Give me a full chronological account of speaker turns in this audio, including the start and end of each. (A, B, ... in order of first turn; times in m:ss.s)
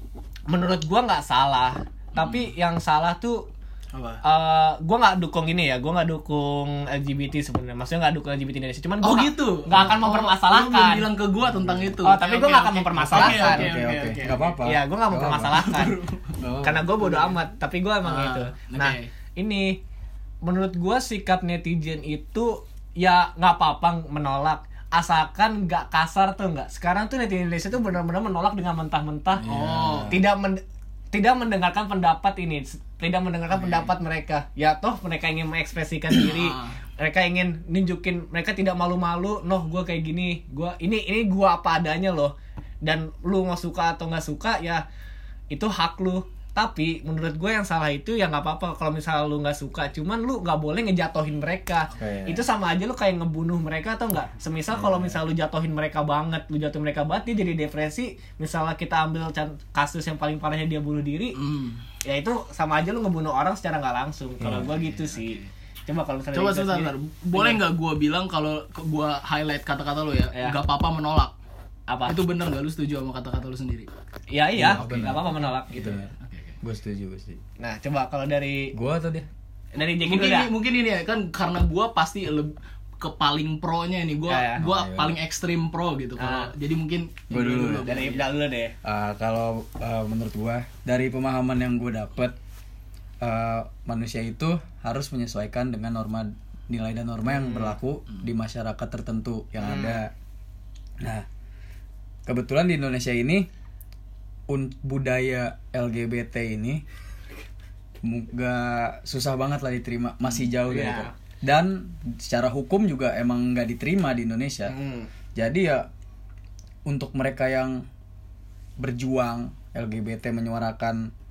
0:00.5-0:03.5 A
0:03.9-0:04.2 B
0:04.2-0:11.1 A
0:09.0-0:14.6 B
0:12.0-0:13.7 A
0:13.1-0:15.6 C
0:14.6-0:16.0 A
0:15.5-0:16.4 B
0:16.4-0:16.9 C
0:16.6-0:19.8 A
0:17.0-0:17.3 B
0:18.0-0:19.1 B
0:20.4-0:29.4 A
0:29.4-0:30.2 C
0:29.4-0:30.2 B
0:30.1-0:30.6 A
0:31.1-0:44.8 A
0:33.5-0:33.9 B
0:36.2-0:36.8 B
0:45.5-1:01.4 A
0:51.9-0:52.4 C
0:54.7-0:55.2 C
1:01.4-1:01.8 B
1:02.0-1:07.6 A
1:04.4-1:04.7 C
1:04.6-1:05.5 B
1:06.3-1:11.3 B
1:11.9-1:12.2 A
1:12.0-1:13.9 B
1:14.3-1:16.0 A
1:14.6-1:16.1 C
1:14.6-1:16.6 B
1:16.6-1:17.4 C
1:17.6-1:18.7 A
1:18.7-1:19.3 C
1:19.7-1:20.5 A
1:20.0-1:28.2 B
1:24.3-1:24.6 A
1:24.6-1:25.1 C
1:26.2-1:26.5 A
1:27.3-1:27.9 C
1:27.8-1:28.7 A
1:28.8-1:32.4 C
1:33.2-1:40.1 C
1:37.3-1:37.7 A
1:39.6-1:40.0 A
1:41.0-1:41.2 C
1:42.2-1:43.5 C
1:44.5-1:46.8 C
1:48.0-1:54.7 C
1:50.6-1:51.1 A
1:54.7-1:55.1 A
1:55.3-1:55.9 C
1:56.9-1:57.8 C
1:58.8-2:01.1 C